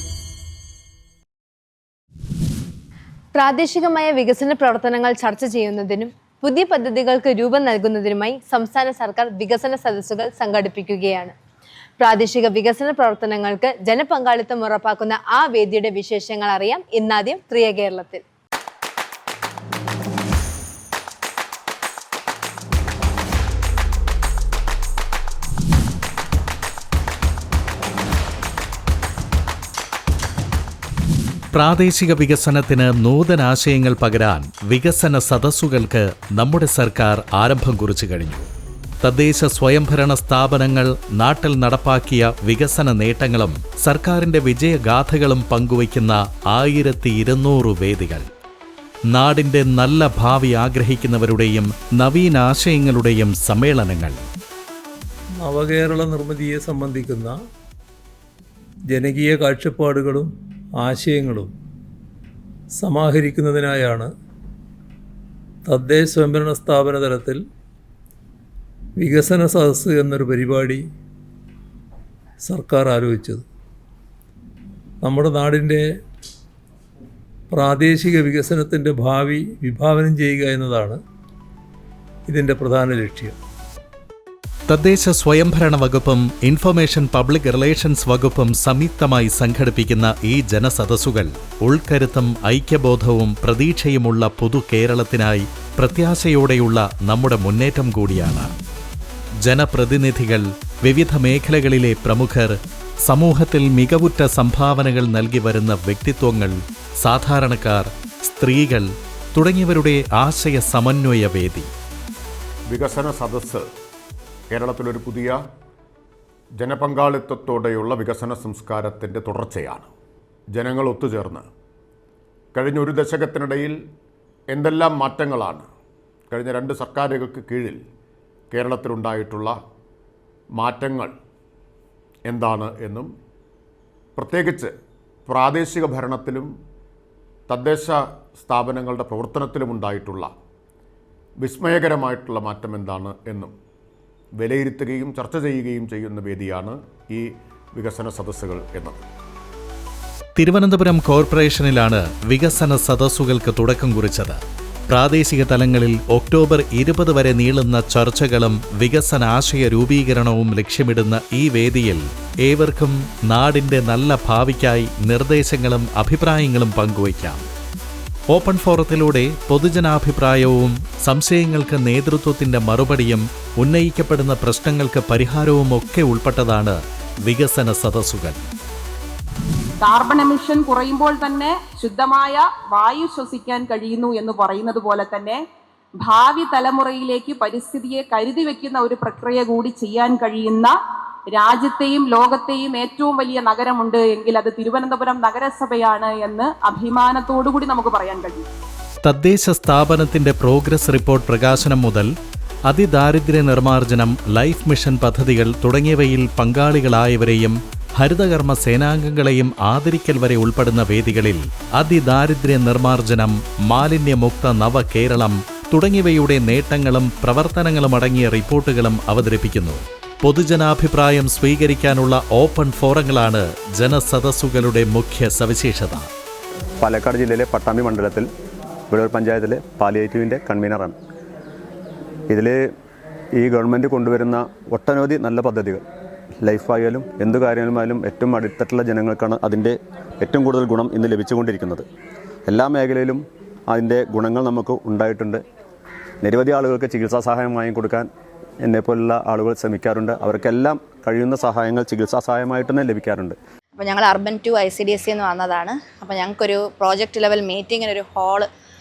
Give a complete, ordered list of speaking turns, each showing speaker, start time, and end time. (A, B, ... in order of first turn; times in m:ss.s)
0:03.3-0:11.3 A
0:12.0-0:18.2 A
0:31.5-0:38.5 B
0:39.0-0:48.3 B
0:49.1-0:54.2 B
0:55.4-0:57.4 C
0:58.9-1:01.5 C
1:02.8-1:04.1 C
1:05.6-1:07.4 C
1:09.0-1:10.8 C
1:12.4-1:13.4 C
1:15.0-1:15.8 C
1:17.5-1:21.0 C
1:22.3-1:23.4 C
1:24.7-1:38.5 B
1:39.4-1:51.7 B
1:52.7-1:53.7 D
1:54.5-1:55.4 D
1:56.6-1:59.9 D
2:00.5-2:01.4 D
2:02.5-2:03.8 D
2:04.5-2:05.6 D
2:06.3-2:07.8 D
2:08.5-2:09.6 D
2:10.6-2:11.1 D
2:12.2-2:13.1 D
2:14.2-2:14.7 D
2:15.2-2:16.5 D
2:17.5-2:20.3 D
2:21.4-2:23.5 D
2:24.4-2:29.0 D
2:30.4-2:47.5 B
2:48.3-2:58.4 B
2:59.8-3:05.4 E
3:06.0-3:10.7 E
3:11.3-3:18.4 E
3:19.0-3:22.1 B
3:22.7-3:46.1 B
3:46.8-3:48.3 F
3:48.9-3:50.9 F
3:52.3-3:52.6 F
3:53.4-3:55.8 F
3:56.4-4:01.8 F
4:02.5-4:05.4 F
4:06.2-4:08.1 F
4:08.6-4:13.4 F
4:13.8-4:18.5 G